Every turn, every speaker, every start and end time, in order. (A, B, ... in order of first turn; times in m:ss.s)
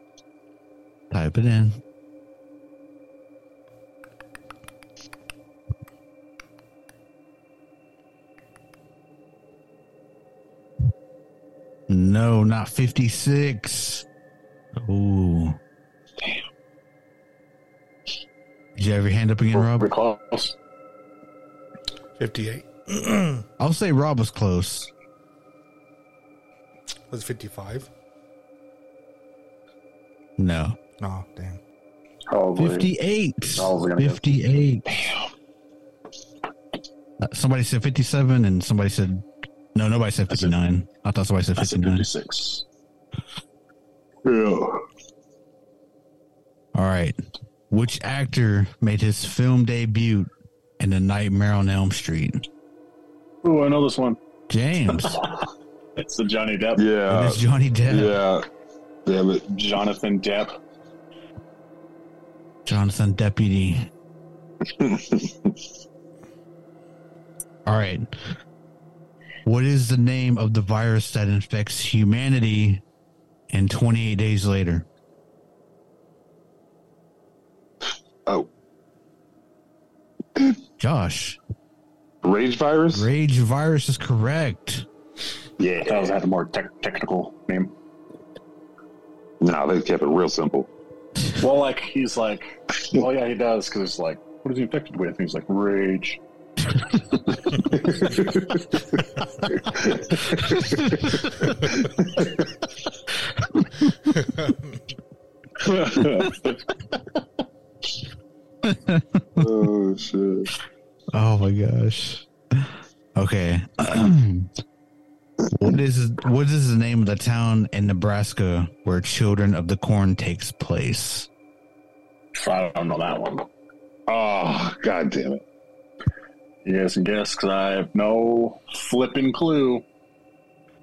0:01.1-0:01.8 A
0:11.9-0:14.0 A
0:14.7-0:15.6 A
0:18.8-0:19.9 A
0:19.5-0:20.5 B
0:22.2-0:23.4 C
0:23.6-0:24.9 A
0:27.1-0:27.9 C
0:30.4-0:30.8 A
0:31.0-0:31.6 C
0:32.3-0:32.9 B
0:32.6-0:34.8 A
0:33.5-0:34.2 B
0:34.9-0:35.2 D
0:37.2-0:42.1 A
0:41.6-0:42.6 B
0:44.2-0:44.8 D
0:46.7-0:47.2 A
0:47.7-0:52.4 A
0:53.4-0:54.2 B
0:54.5-0:55.2 A
0:56.0-0:56.8 B
0:56.8-0:58.4 D
0:57.1-0:58.2 A
0:59.0-0:59.4 D
0:59.5-1:00.5 B
1:02.6-1:03.9 A
1:04.8-1:05.5 D
1:07.6-1:08.1 A
1:09.4-1:12.8 A
1:13.5-1:14.8 A
1:20.8-1:21.4 A
1:22.2-1:23.1 D
1:22.9-1:24.8 A
1:25.6-1:26.2 D
1:25.8-1:27.7 B
1:29.4-1:30.7 D
1:31.4-1:36.2 B
1:37.5-1:38.2 B
1:38.0-1:38.4 D
1:39.7-1:41.1 D
1:41.8-1:42.2 D
1:45.6-1:46.5 D
1:48.6-1:49.5 A
1:49.4-1:50.5 D
1:51.1-1:54.5 A
1:55.5-2:01.3 A
2:02.4-2:03.5 B
2:04.1-2:05.4 D
2:06.6-2:09.8 B